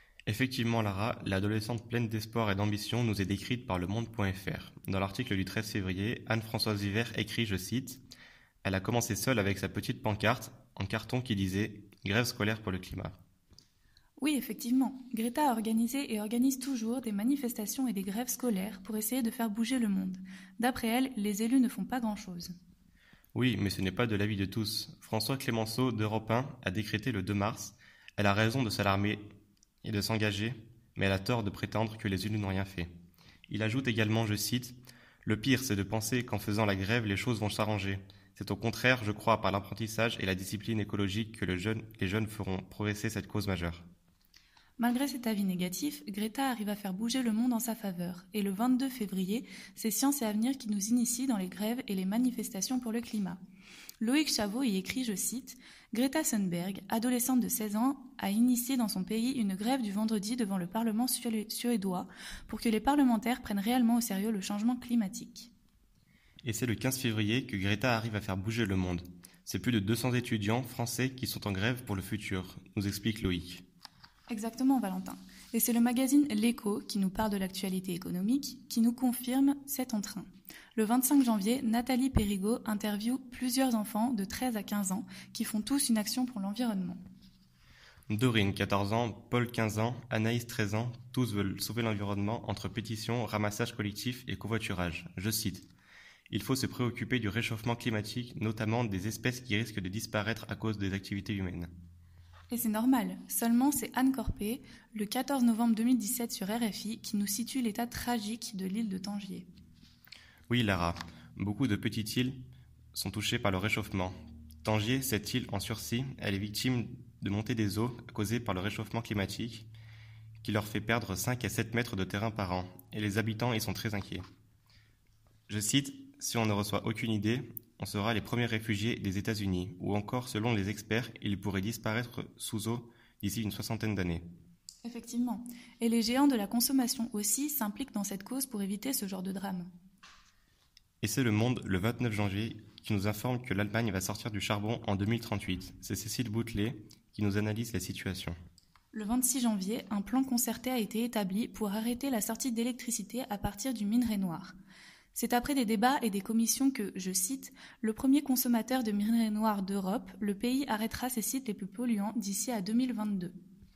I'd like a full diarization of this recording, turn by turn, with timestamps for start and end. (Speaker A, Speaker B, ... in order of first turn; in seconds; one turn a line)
Speaker A: 0.3-8.0
Speaker A: 8.6-13.2
Speaker B: 14.2-22.5
Speaker A: 23.3-29.2
Speaker A: 29.8-32.9
Speaker A: 33.5-43.9
Speaker B: 44.8-53.4
Speaker B: 54.0-65.5
Speaker A: 66.4-73.6
Speaker B: 74.3-87.0
Speaker A: 88.1-95.7
Speaker A: 96.3-101.7
Speaker B: 102.5-109.5
Speaker A: 110.5-119.7
Speaker A: 120.4-124.2
Speaker A: 125.5-134.2
Speaker B: 134.8-139.7
Speaker A: 141.0-148.3
Speaker B: 148.9-154.6
Speaker B: 155.1-163.3